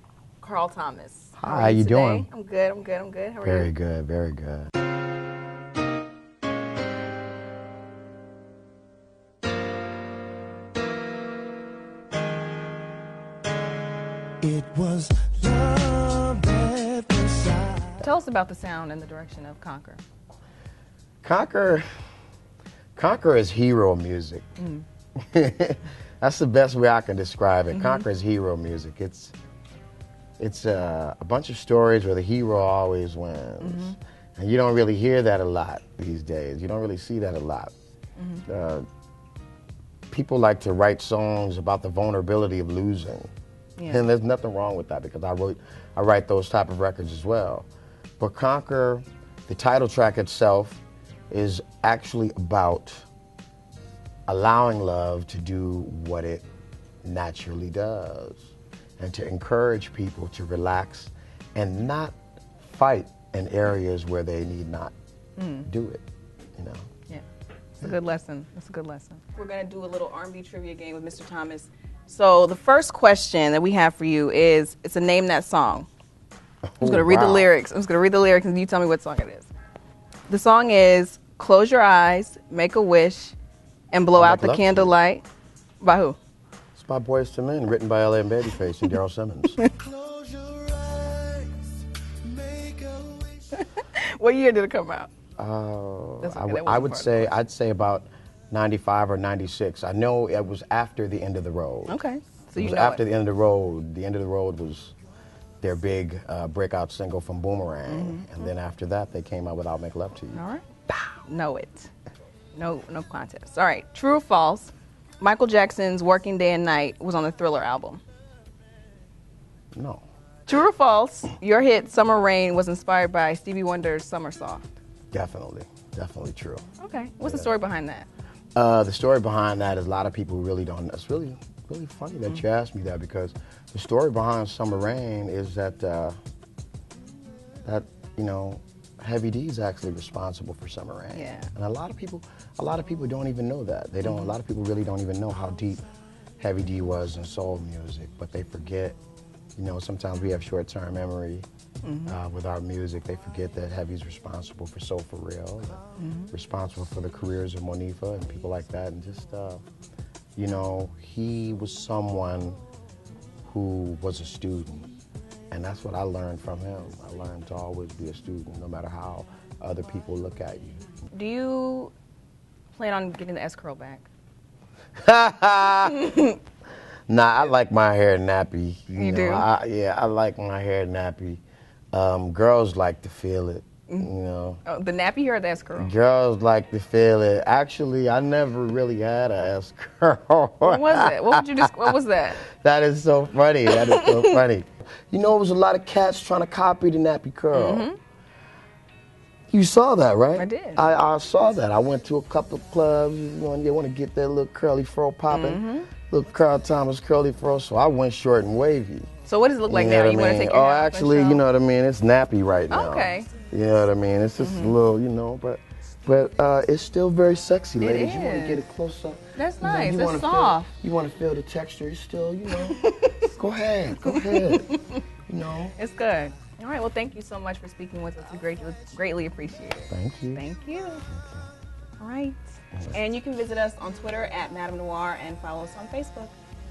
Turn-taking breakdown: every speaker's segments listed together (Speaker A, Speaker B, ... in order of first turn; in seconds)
Speaker A: 0.4-3.7, 18.0-20.0, 24.6-24.9, 27.7-28.0, 33.6-34.0, 38.2-38.4, 43.8-44.0, 65.4-65.7, 67.8-75.9, 76.8-79.5, 80.3-83.4, 83.9-85.2, 85.8-86.2, 93.5-95.1, 96.2-97.4, 101.9-103.0, 107.9-108.4, 110.3-111.9, 112.5-118.0, 120.5-124.7, 126.8-128.1, 141.1-141.5, 144.0-144.3, 151.8-152.2, 156.0-156.3, 171.1-171.9, 172.7-174.1, 176.0-176.3, 178.9-179.5, 184.6-185.9, 190.6-192.4, 193.7-194.3, 197.5-198.0, 200.3-200.8, 205.3-205.9, 209.2-211.4, 212.7-213.3, 214.4-214.8, 217.8-218.6, 219.3-220.7, 222.5-223.3, 224.0-225.0, 225.8-231.0, 232.0-236.3
Speaker B: 1.4-2.2, 3.4-4.7, 21.2-21.9, 23.0-24.5, 25.2-29.4, 30.4-37.7, 38.5-38.9, 40.1-43.3, 43.8-47.7, 48.2-53.1, 54.3-56.5, 57.0-64.9, 65.7-66.0, 66.6-66.9, 76.8-77.5, 84.1-84.9, 86.8-89.6, 95.4-102.0, 102.6-104.9, 105.6-110.4, 119.7-120.0, 125.1-126.6, 127.2-127.5, 128.6-136.2, 137.6-145.8, 146.4-149.0, 149.6-151.5, 152.1-159.6, 160.3-162.6, 163.4-164.9, 165.5-170.8, 175.0-176.1, 177.1-181.4, 181.9-184.6, 185.8-191.9, 192.5-197.9, 199.5-209.1, 209.7-222.8, 223.3-224.7, 225.3-225.8, 229.9-230.4, 231.1-231.4
Speaker C: 14.4-18.0, 89.7-93.5